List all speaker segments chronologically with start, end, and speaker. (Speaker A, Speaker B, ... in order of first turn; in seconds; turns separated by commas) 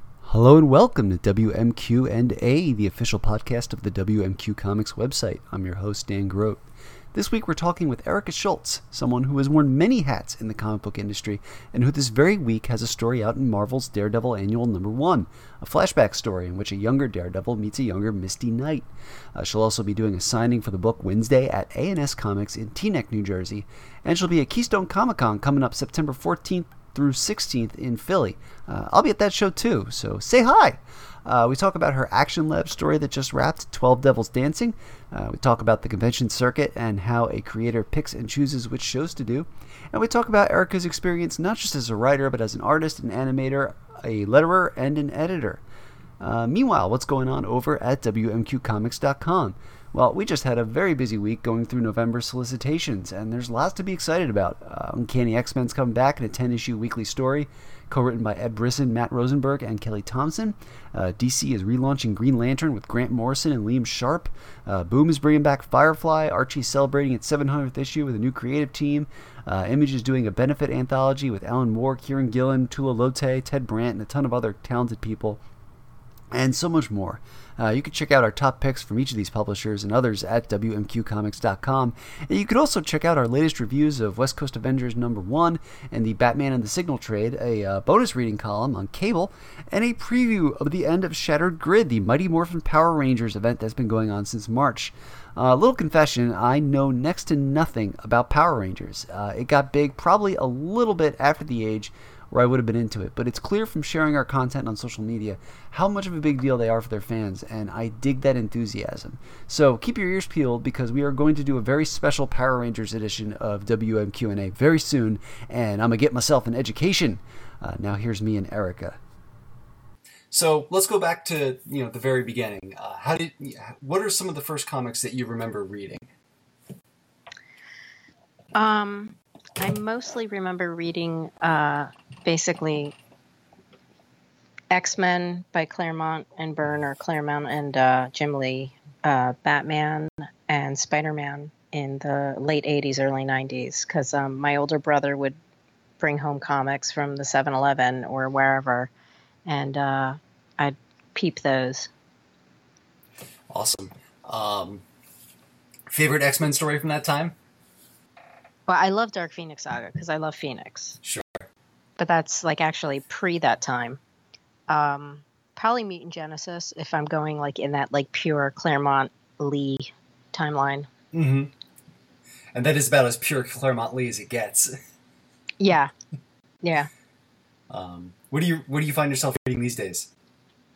Speaker A: 0.2-45.6, Speaker A: 46.2-75.4, Speaker A: 76.3-119.0, Speaker B: 120.3-126.1, Speaker C: 128.6-132.9, Speaker C: 134.7-145.4, Speaker C: 146.0-148.9, Speaker C: 149.5-151.9, Speaker B: 153.5-154.8, Speaker B: 155.9-157.3, Speaker C: 158.7-161.0, Speaker B: 161.0-161.5, Speaker C: 162.0-164.0, Speaker C: 164.7-170.9, Speaker B: 171.1-171.5, Speaker B: 172.5-174.8, Speaker C: 175.6-175.9, Speaker C: 176.6-176.9, Speaker B: 177.7-180.1